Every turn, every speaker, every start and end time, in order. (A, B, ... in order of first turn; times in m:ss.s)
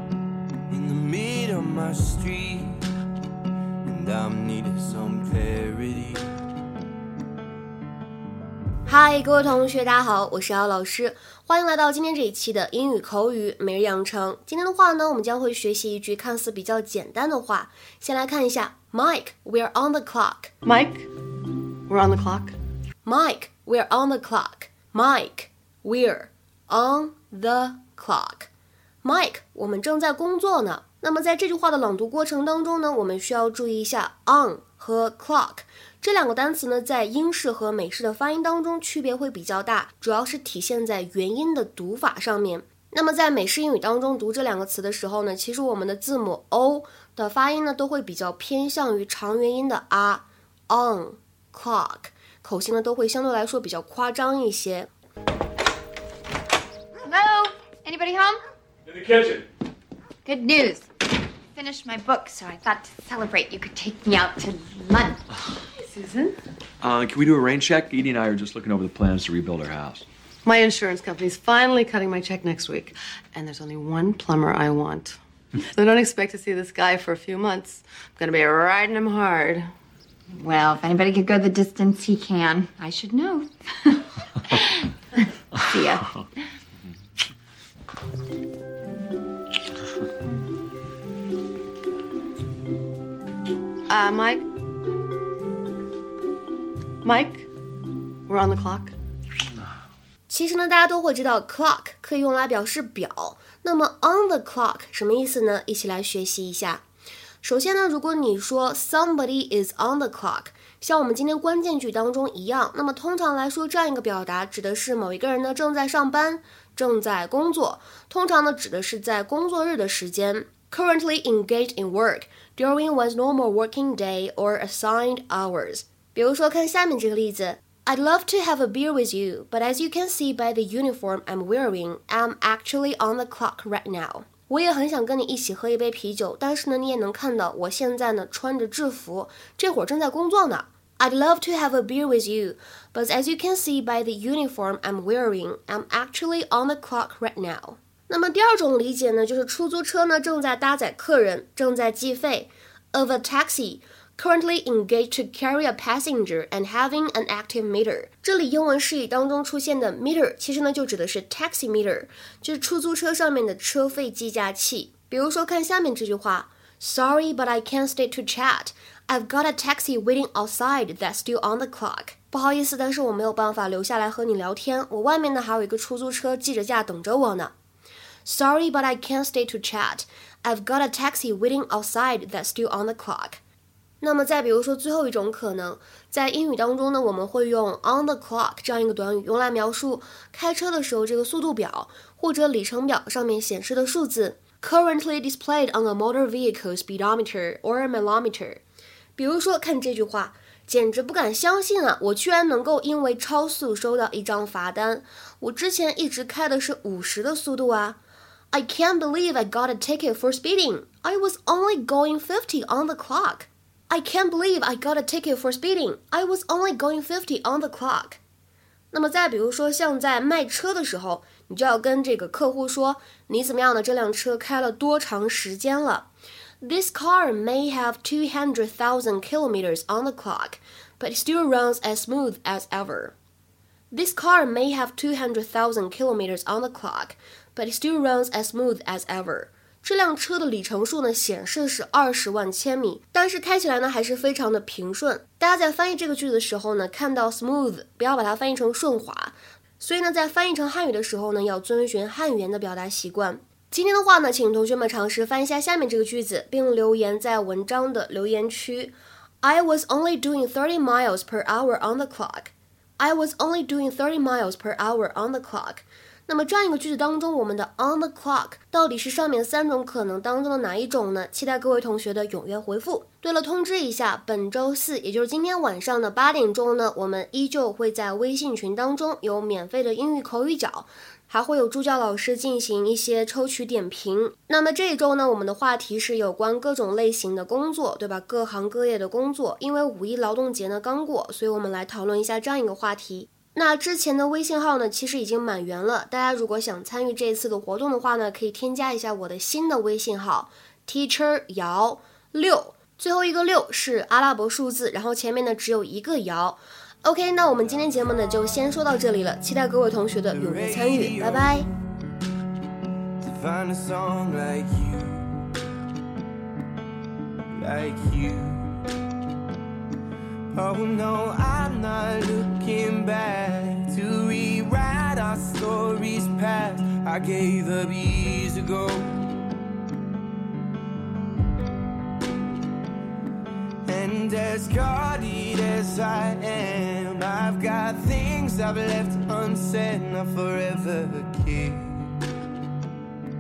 0:00.7-0:02.8 A
0:03.8-0:06.3 A
0:08.9-0:20.5 B
0:20.6-0:21.1 C
0:21.9-0:22.5 C
0:23.0-0:28.5 B
0:29.0-0:54.9 B
0:57.1-0:58.4 D
0:58.9-0:59.4 E
1:00.2-1:00.9 D
1:01.6-1:05.2 D
1:05.8-1:06.3 C
1:06.8-1:10.0 E
1:10.4-1:19.7 C
1:20.6-1:24.0 D
1:25.7-1:26.0 D
1:33.9-1:34.4 C
1:37.0-1:37.5 C
1:38.3-1:38.9 C
1:40.3-1:46.8 B
1:47.4-2:57.5 B
2:58.2-3:03.4 B
3:04.0-3:18.6 B
3:19.2-3:28.0 B
3:28.5-3:38.2 B
3:38.9-3:46.1 B
3:46.6-3:53.2 B
3:53.9-5:11.7 B
5:10.3-5:11.7 A
5:13.2-5:15.4 A
5:17.6-5:18.8 A
5:20.5-5:29.1 A
5:33.8-5:42.2 A